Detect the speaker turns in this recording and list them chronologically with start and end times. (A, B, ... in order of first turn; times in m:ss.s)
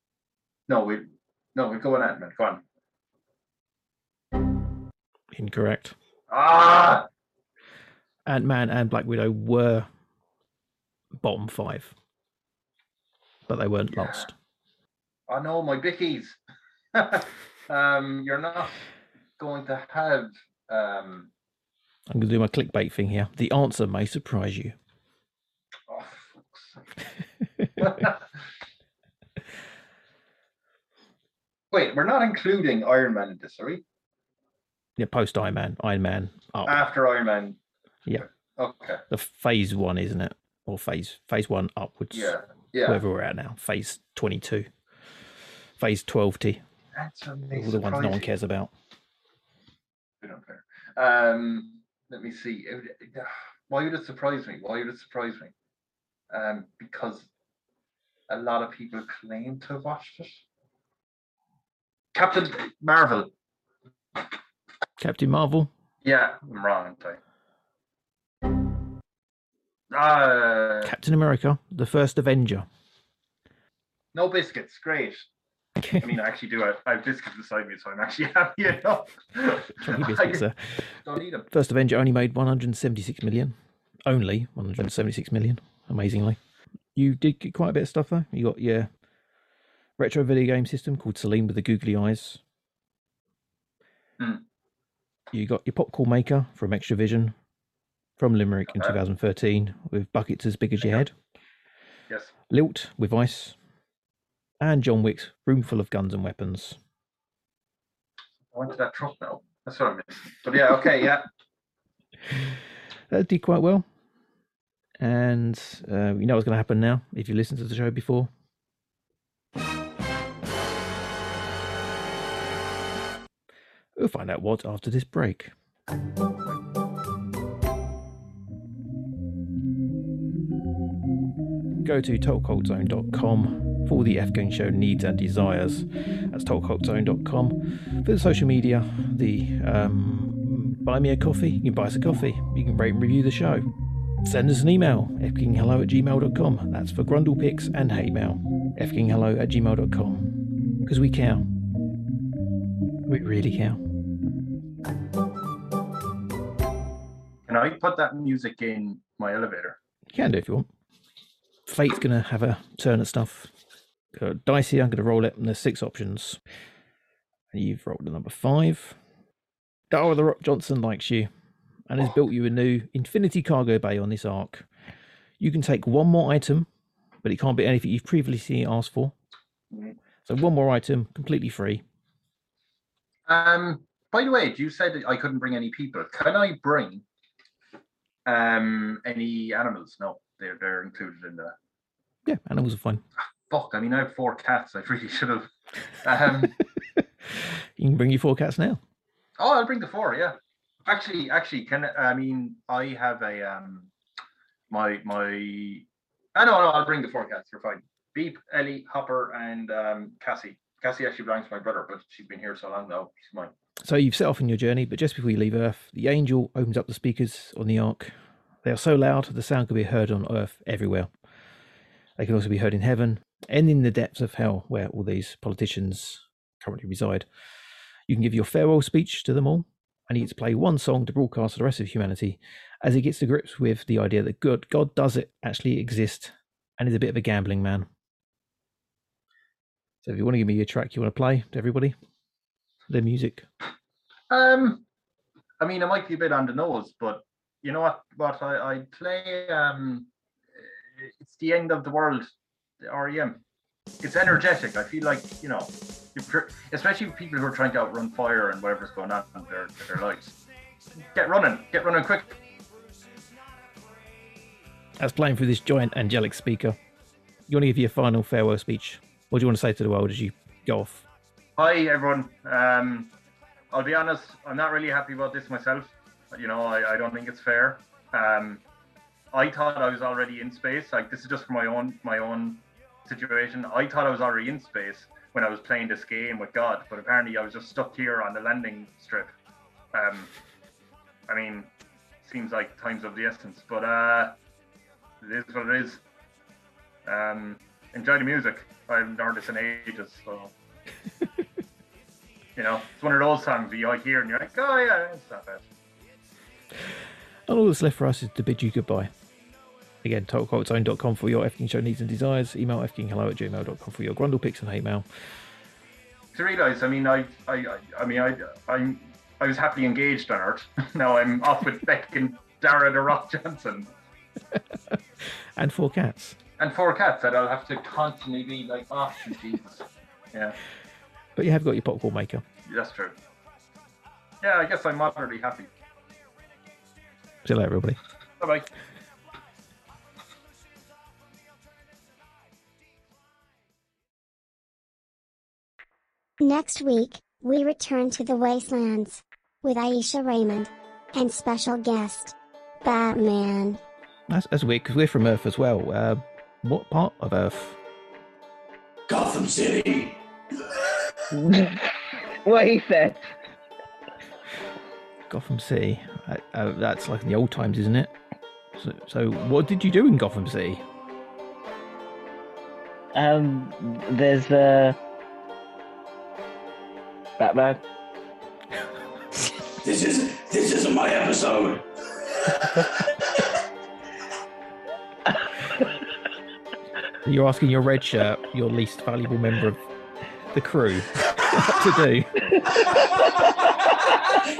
0:00.7-0:02.6 A
0:05.3-0:06.0 B
0:06.3-0:07.1 A
0:08.3-0:09.9 B
0:11.2-0:12.0 B
0:13.5-0:14.3 B
0:14.0-0:14.3 A
0:15.3-0:16.4 A
0:16.9-0:18.8 A
0:19.4-0:21.3 A
0:22.1-0:24.7 B
0:25.9-0:26.8 A
0:27.8-0:28.3 A
0:31.7-0:33.8 A
0:35.0-0:36.8 B
0:36.6-0:37.6 A
0:38.2-0:39.0 A
0:39.1-0:44.7 B
0:42.1-0:43.0 A
0:45.8-0:46.6 B
0:47.0-0:48.3 A
0:47.5-0:48.7 B
0:50.2-0:55.5 A
0:56.3-0:57.3 A
0:58.3-1:00.4 A
1:02.1-1:03.3 A
1:05.0-1:05.7 B
1:06.0-1:07.2 A
1:09.9-1:11.0 A
1:10.8-1:12.6 B
1:14.1-1:15.3 A
1:15.8-1:16.0 B
1:16.0-1:20.4 A
1:19.8-1:23.6 B
1:21.0-1:21.5 A
1:24.0-1:26.4 B
1:27.0-1:28.9 B
1:30.0-1:32.4 B
1:34.2-1:34.4 A
1:35.3-1:37.3 B
1:38.2-1:41.1 B
1:38.7-1:39.0 A
1:42.5-1:43.6 B
1:44.6-1:46.8 B
1:48.5-1:51.3 A
1:52.3-1:52.6 B
1:53.1-1:53.9 B
1:55.0-1:58.3 B
2:04.0-2:05.5 B
2:11.8-2:23.7 B
2:24.2-2:31.5 B
2:33.1-2:33.8 B
2:37.5-2:39.8 A
2:40.1-2:40.7 B
2:41.6-2:43.5 B
2:44.1-2:46.4 B
2:47.5-2:49.0 B
2:49.9-2:51.3 B
2:51.9-2:54.7 B
2:55.4-2:56.7 B
2:57.2-2:59.1 B
3:00.2-3:01.8 B
3:03.3-3:07.0 A
3:08.3-3:11.6 A
3:12.3-3:13.0 B
3:13.5-3:15.5 A
3:16.0-3:16.6 A
3:17.8-3:18.8 B
3:19.4-3:23.9 A
3:24.7-3:33.5 A
3:33.8-3:41.1 B
3:42.2-3:47.3 B
3:48.1-3:57.9 B
4:00.0-4:02.0 B
4:02.9-4:03.4 B
4:04.3-4:04.8 A
4:05.6-4:13.4 A
4:14.0-4:20.3 A
4:21.0-4:22.4 A
4:25.0-4:26.8 B
4:27.5-4:31.0 B
4:31.6-4:33.1 A
4:33.7-4:38.6 A
4:39.3-4:49.3 A
4:49.9-4:50.3 A
4:51.3-4:51.7 A
4:52.2-4:54.4 A
4:55.2-4:56.0 A
4:57.0-5:00.5 A
5:02.6-5:05.7 A
5:07.5-5:09.1 B
5:10.0-5:15.0 B
5:16.3-5:23.9 A
5:24.5-5:26.4 B
5:26.6-5:30.6 A
5:31.4-5:32.4 B
5:32.6-5:33.1 A
5:34.4-5:35.7 A
5:37.4-5:38.0 B
5:38.4-5:38.7 A
5:46.4-5:53.8 C
5:54.3-5:57.8 B
5:59.1-6:00.2 D
6:01.3-6:03.3 E
6:05.3-6:08.1 B
6:08.7-6:10.8 B
6:13.1-6:15.0 E
6:17.4-6:17.8 E
6:19.8-6:21.8 D
6:27.2-6:29.8 B
6:30.5-6:32.5 B
6:32.8-6:33.7 D